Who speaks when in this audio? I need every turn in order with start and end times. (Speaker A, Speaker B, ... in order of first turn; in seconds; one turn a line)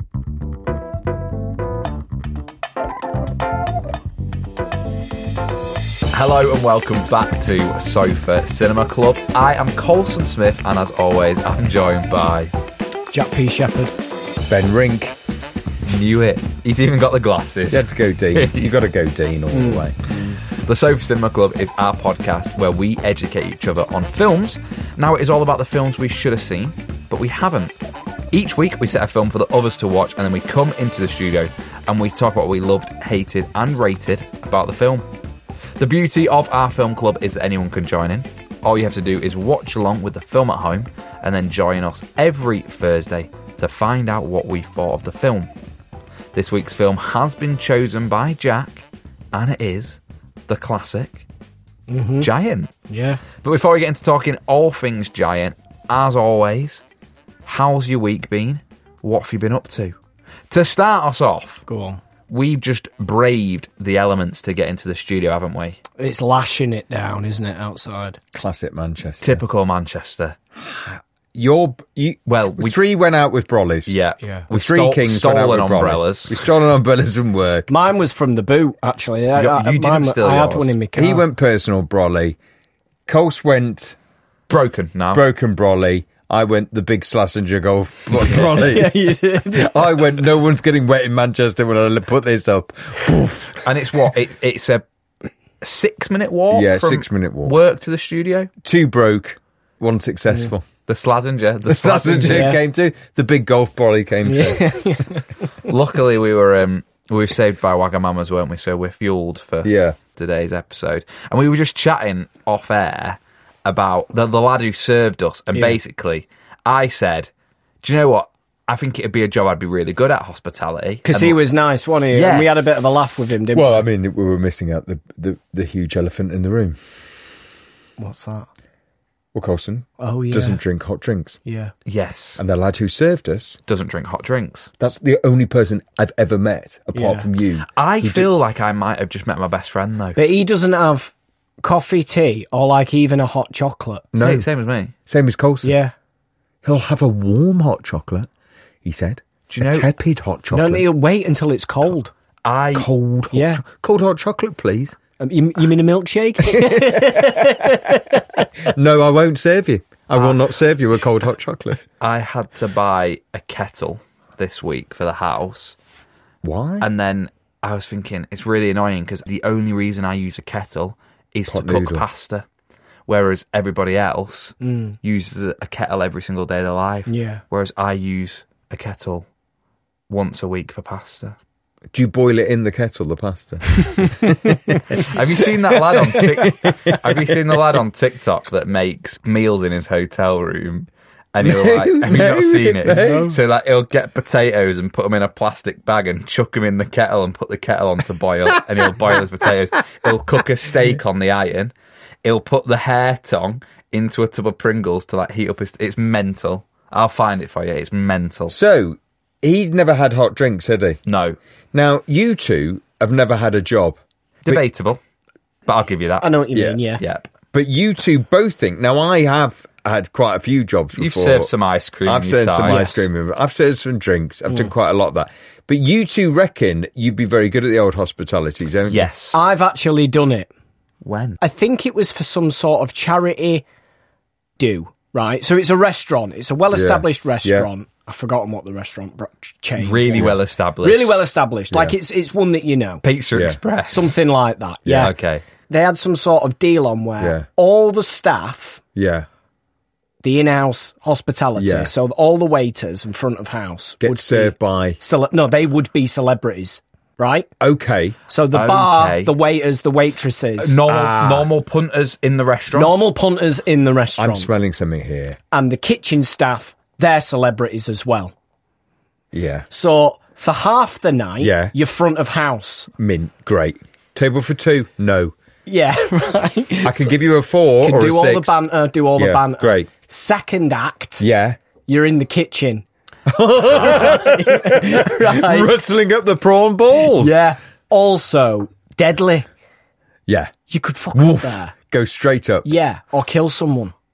Speaker A: 6.1-12.5
Speaker B: 13.1-13.9
Speaker C: 14.5-15.2
Speaker A: 15.8-18.8
Speaker C: 17.7-19.9
Speaker B: 19.5-20.4
Speaker A: 20.6-27.7
Speaker A: 28.3-35.0
Speaker A: 35.8-45.5
Speaker A: 46.3-51.2
Speaker B: 51.9-52.3
Speaker A: 52.2-52.7
Speaker B: 52.9-53.2
Speaker A: 53.4-56.8
Speaker A: 57.5-60.0
Speaker A: 60.5-61.6
Speaker B: 61.7-62.0
Speaker A: 62.3-65.8
Speaker B: 66.0-68.2
Speaker C: 68.3-69.4
Speaker A: 69.2-70.3
Speaker C: 70.6-73.9
Speaker A: 72.3-72.8
Speaker A: 73.9-76.5
Speaker C: 74.5-77.7
Speaker B: 77.7-81.2
Speaker A: 79.3-80.7
Speaker C: 81.0-82.4
Speaker C: 83.1-84.0
Speaker A: 84.5-85.2
Speaker C: 85.1-93.7
Speaker B: 88.3-90.2
Speaker A: 93.6-94.8
Speaker A: 95.6-98.5
Speaker C: 96.5-97.6
Speaker C: 98.6-100.7
Speaker A: 100.9-102.5
Speaker C: 101.7-104.7
Speaker B: 102.3-102.6
Speaker B: 104.2-105.3
Speaker A: 105.7-117.3
Speaker C: 109.6-110.0
Speaker A: 117.8-121.5
Speaker B: 121.0-123.8
Speaker A: 122.1-122.5
Speaker C: 123.5-126.8
Speaker B: 128.0-128.5
Speaker C: 129.3-131.4
Speaker B: 130.0-130.6
Speaker B: 131.4-131.7
Speaker A: 131.9-132.4
Speaker C: 132.4-133.6
Speaker A: 133.7-134.7
Speaker C: 134.8-138.3
Speaker B: 136.9-137.3
Speaker A: 137.8-140.2
Speaker B: 140.2-144.1
Speaker C: 144.1-144.5
Speaker A: 144.2-144.9
Speaker C: 145.1-145.7
Speaker B: 145.6-145.9
Speaker C: 146.6-148.3
Speaker C: 148.8-150.9
Speaker A: 149.5-149.9
Speaker B: 150.5-152.1
Speaker A: 152.4-152.9
Speaker C: 152.7-155.0
Speaker B: 153.3-153.6
Speaker B: 155.2-158.5
Speaker C: 156.5-157.9
Speaker C: 158.6-161.8
Speaker A: 162.0-165.7
Speaker C: 166.4-166.9
Speaker A: 166.8-172.4
Speaker C: 171.5-172.0
Speaker A: 173.1-179.2
Speaker B: 174.6-175.0
Speaker B: 177.1-177.4
Speaker A: 180.1-181.3
Speaker C: 181.9-187.4
Speaker A: 185.1-201.7
Speaker C: 191.4-193.3
Speaker B: 192.9-193.3
Speaker A: 202.2-208.6
Speaker C: 208.5-211.0
Speaker A: 211.1-211.4
Speaker C: 211.7-214.6
Speaker A: 214.4-215.0
Speaker A: 215.7-216.4
Speaker B: 216.2-217.0
Speaker C: 216.5-216.8
Speaker A: 217.0-217.3
Speaker C: 217.5-221.5
Speaker A: 220.9-222.8
Speaker C: 222.0-229.1
Speaker B: 222.6-223.1
Speaker B: 224.5-224.7
Speaker A: 228.9-229.4
Speaker B: 229.3-230.5
Speaker A: 231.0-231.4
Speaker B: 231.4-233.6
Speaker B: 234.6-243.0
Speaker C: 236.7-237.7
Speaker A: 239.8-241.2
Speaker A: 243.0-244.1
Speaker C: 243.3-243.6
Speaker B: 243.9-245.1
Speaker C: 244.8-245.1
Speaker A: 245.0-245.4
Speaker B: 245.7-248.8
Speaker C: 247.2-247.4
Speaker C: 248.9-249.3
Speaker B: 250.2-257.5
Speaker C: 251.6-251.9
Speaker C: 254.0-255.0
Speaker C: 257.6-258.2
Speaker B: 258.3-260.8
Speaker A: 258.5-259.3
Speaker A: 260.6-262.9
Speaker C: 260.9-261.5
Speaker B: 262.7-264.5
Speaker C: 264.2-265.4
Speaker B: 265.5-268.3
Speaker C: 269.3-269.7
Speaker B: 269.7-272.9
Speaker C: 271.4-271.7
Speaker C: 273.0-275.3
Speaker B: 275.6-277.1
Speaker C: 276.8-278.6
Speaker B: 277.8-281.2
Speaker C: 279.1-279.9
Speaker C: 281.2-281.6
Speaker B: 281.9-282.8
Speaker C: 283.3-287.4
Speaker B: 283.7-285.7
Speaker B: 287.0-289.4
Speaker C: 290.3-290.5
Speaker B: 290.7-291.7
Speaker C: 291.1-292.7
Speaker B: 292.6-293.9